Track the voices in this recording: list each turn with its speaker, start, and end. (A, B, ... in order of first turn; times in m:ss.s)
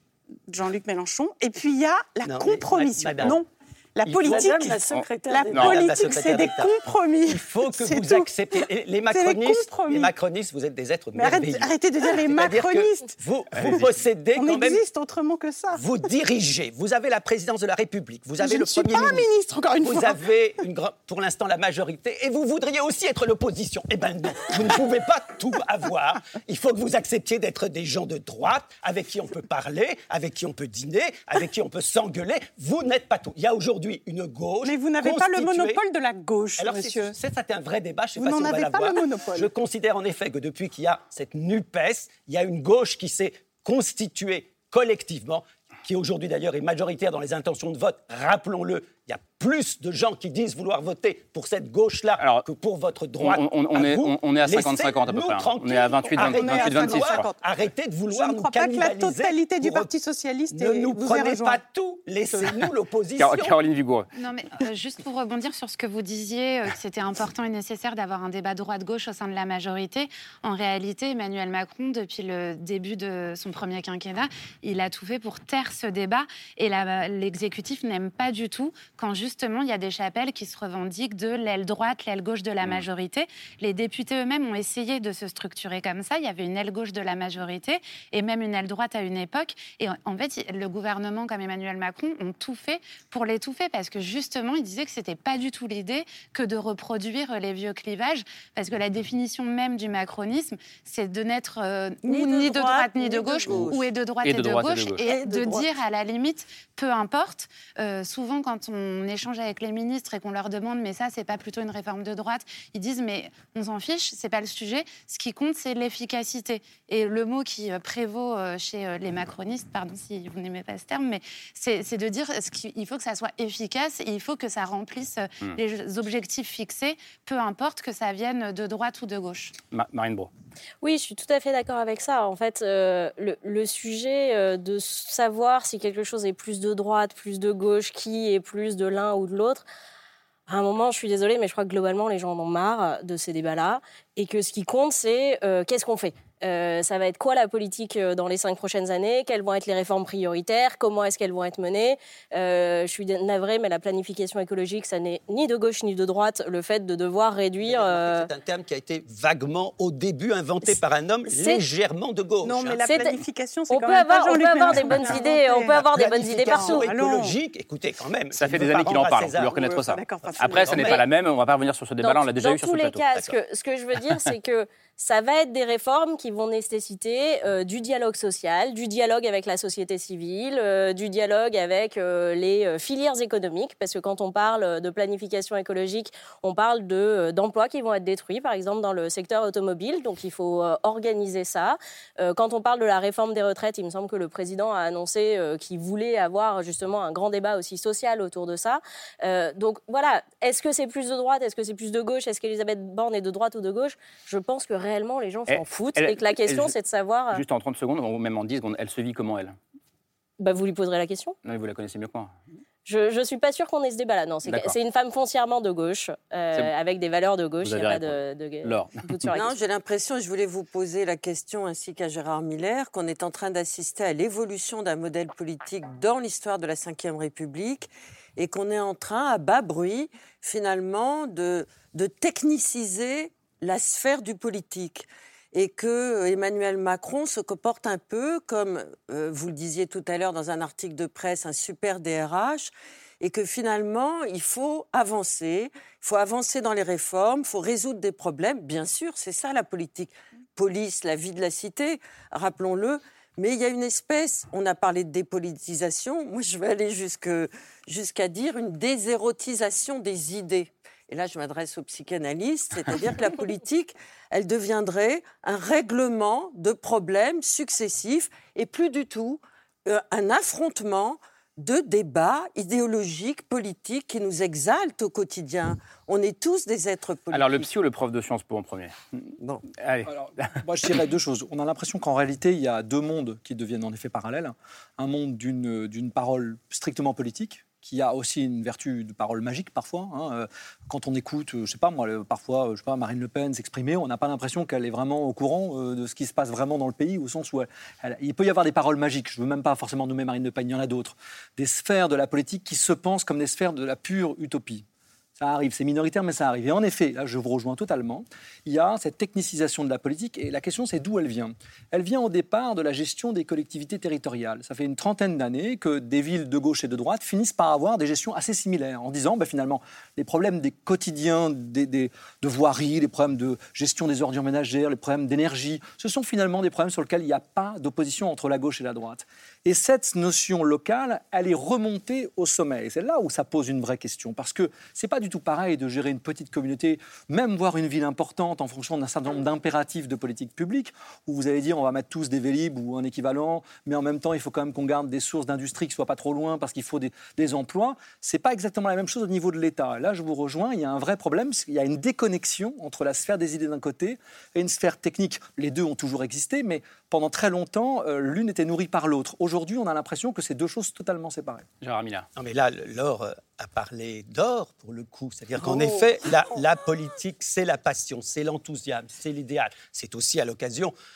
0:00.5-0:10.1 A
0:02.2-0:03.4 B
0:04.1-0:06.3 C
0:05.5-0:14.8 B
0:11.2-0:15.8 A
0:15.7-0:19.3 B
0:18.4-0:20.2 A
0:19.8-0:35.8 B
0:34.6-0:37.2 A
0:36.6-0:59.9 B
0:38.2-0:39.5 A
0:52.2-0:52.4 D
0:53.2-0:57.3 D
0:55.9-0:57.4 A
0:58.1-1:01.6 A
1:00.5-1:03.6 B
1:03.2-1:04.1 D
1:04.2-2:09.5 E
1:42.0-1:43.9 C
1:44.2-1:45.1 D
1:45.0-1:45.7 C
2:09.7-2:10.3 D
2:10.8-2:19.6 F
2:20.5-2:38.3 F
2:37.7-2:42.8 B
2:42.4-2:47.4 A
2:42.8-2:43.2 F
2:43.7-2:46.8 F
2:45.7-2:49.7 B
2:48.3-2:53.0 D
2:49.5-2:51.0 A
2:50.2-2:51.0 B
2:52.0-3:27.4 F
3:25.5-3:26.7 D
3:27.3-3:29.6 D
3:30.4-3:31.4 F
3:31.4-3:32.3 D
3:32.9-3:39.6 F
3:34.5-3:34.8 D
3:37.6-3:39.4 D
3:39.3-4:37.7 C
4:37.3-4:39.2 D
4:39.4-4:39.6 C
4:39.8-4:40.5 D
4:40.1-5:04.8 G
5:05.4-6:01.6 G
6:01.8-6:02.3 D
6:02.4-6:10.9 B